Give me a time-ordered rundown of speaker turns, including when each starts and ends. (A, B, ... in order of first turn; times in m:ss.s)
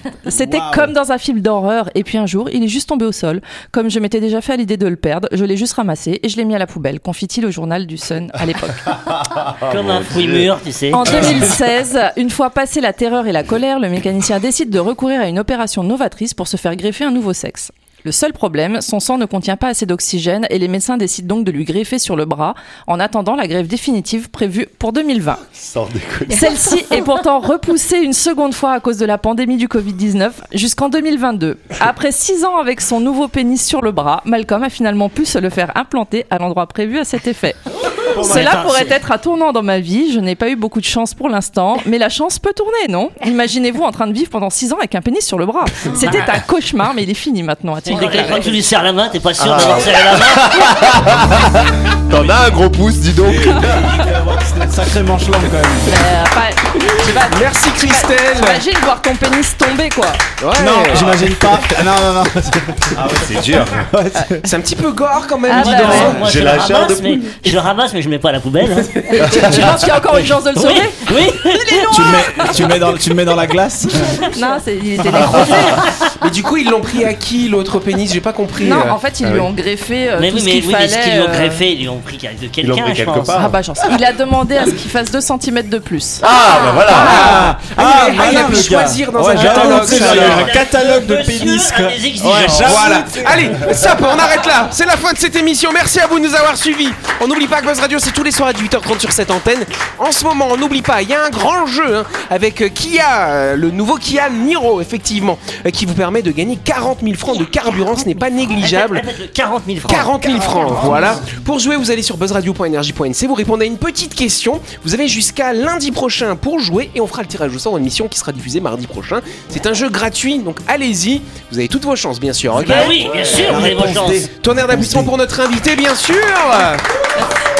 0:00.2-0:09.0 A
0:00.3-0:00.9 B
0:08.9-0:10.5 C
0:09.7-0:11.5 D
0:10.9-0:25.4 A
0:25.6-0:26.7 C
0:26.3-0:48.5 A
0:38.1-0:39.0 D
0:45.9-0:46.4 D
0:47.8-0:50.9 D
0:49.4-0:53.8 C
0:53.5-0:56.1 B
0:55.8-1:00.2 A
0:57.0-0:58.6 E
1:00.4-1:01.6 E
1:00.5-1:04.5 B
1:03.0-1:03.9 C
1:04.4-1:06.2 E
1:05.4-1:06.1 A
1:05.6-1:09.2 D
1:05.9-1:07.3 C
1:08.8-1:09.3 E
1:09.2-1:12.8 A
1:10.1-1:11.9 D
1:11.9-1:14.3 B
1:14.3-1:15.8 A
1:15.0-1:15.6 B
1:16.2-1:19.5 E
1:18.6-1:21.6 A
1:20.2-1:23.4 D
1:22.6-1:23.9 C
1:23.4-1:26.2 A
1:26.2-1:27.6 C
1:26.8-1:33.8 B
1:26.9-1:30.6 E
1:29.3-1:33.0 D
1:32.5-1:49.0 E
1:48.5-1:50.9 D
1:49.8-2:03.6 E
1:50.7-1:51.4 B
2:02.6-2:05.1 B
2:02.6-2:04.3 D
2:04.3-2:06.8 E
2:07.2-2:07.5 A